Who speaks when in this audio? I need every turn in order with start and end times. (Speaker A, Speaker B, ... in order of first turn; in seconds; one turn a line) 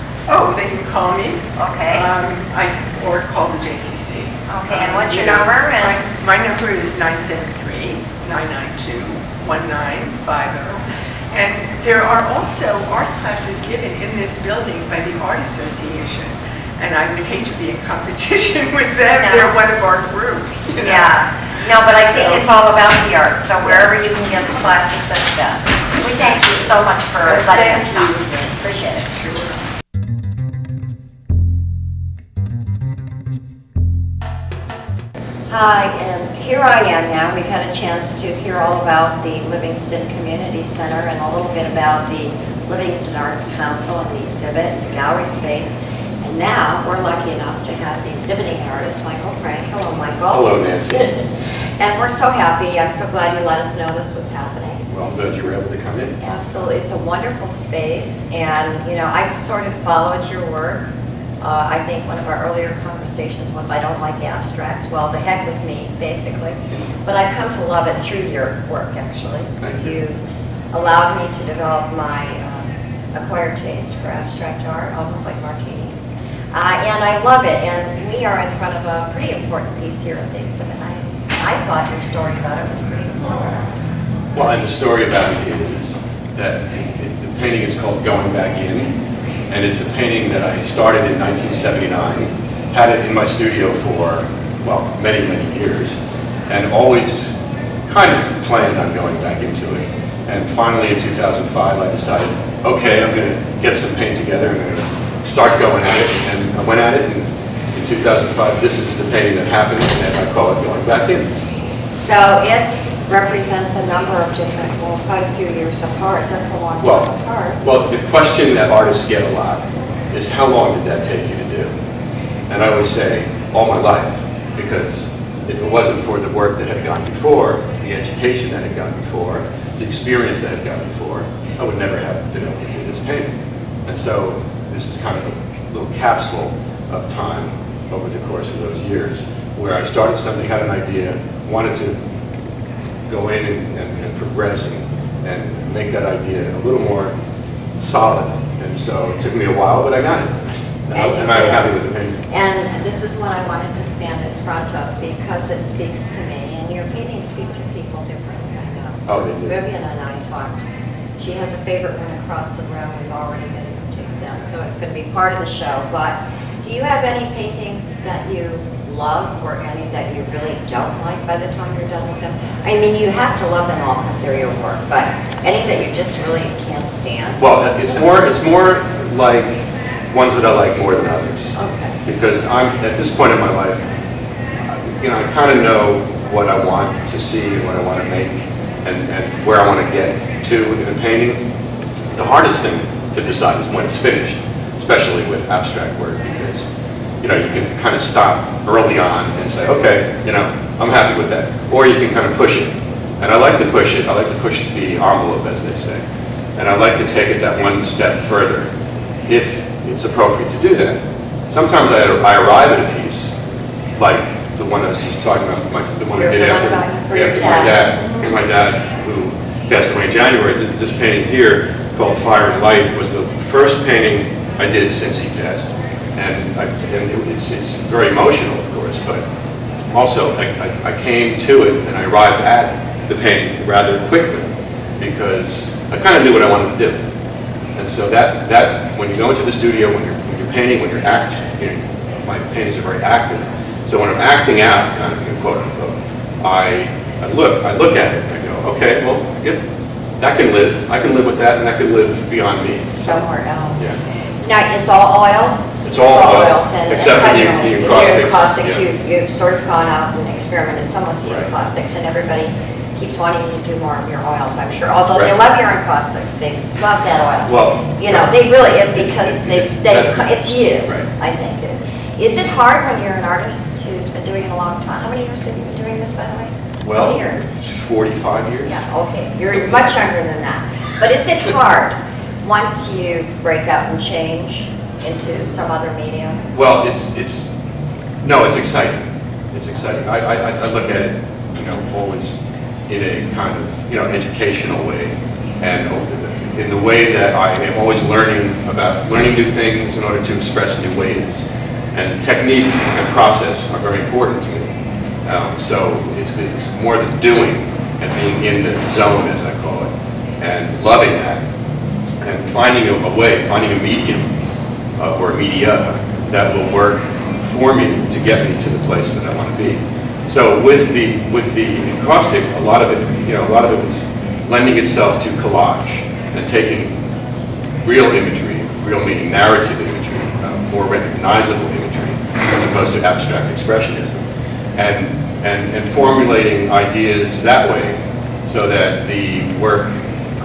Speaker A: 0.3-21.1
Speaker B: 1.6-2.1
Speaker B: 4.5-6.0
Speaker B: 19.2-19.6
Speaker B: 20.8-29.1
Speaker A: 21.8-22.5
Speaker A: 23.6-24.1
Speaker A: 26.0-26.7
Speaker A: 27.2-28.6
Speaker A: 29.1-29.5
Speaker B: 35.5-54.8
Speaker C: 50.3-51.2
Speaker C: 54.9-56.2
Speaker B: 56.2-83.7
Speaker C: 69.6-70.0
Speaker C: 84.3-89.0
Speaker C: 89.5-97.4
Speaker C: 97.9-111.3
Speaker B: 111.9-117.7
Speaker C: 116.8-117.1
Speaker C: 117.6-121.7
Speaker C: 122.5-133.3
Speaker C: 133.9-142.0
Speaker C: 143.1-147.1
Speaker C: 147.8-152.2
Speaker B: 150.9-151.7
Speaker B: 152.3-160.7
Speaker C: 159.1-159.6
Speaker B: 161.2-178.1
Speaker C: 177.4-183.9
Speaker B: 181.6-182.0
Speaker C: 184.6-191.4
Speaker C: 192.1-196.7
Speaker C: 197.2-206.0
Speaker C: 206.6-208.7
Speaker C: 209.3-213.3
Speaker C: 214.0-229.2
Speaker B: 216.2-218.0
Speaker C: 229.9-237.0
Speaker C: 237.8-249.6
Speaker C: 250.2-253.2
Speaker B: 253.0-277.6
Speaker C: 255.8-258.9
Speaker C: 267.5-271.1
Speaker C: 276.8-278.8
Speaker B: 278.6-286.4
Speaker C: 279.5-280.0
Speaker C: 286.5-287.5
Speaker C: 288.2-304.7
Speaker C: 305.3-311.4
Speaker C: 312.2-314.3
Speaker C: 315.0-326.9
Speaker C: 327.8-334.2
Speaker C: 334.8-339.9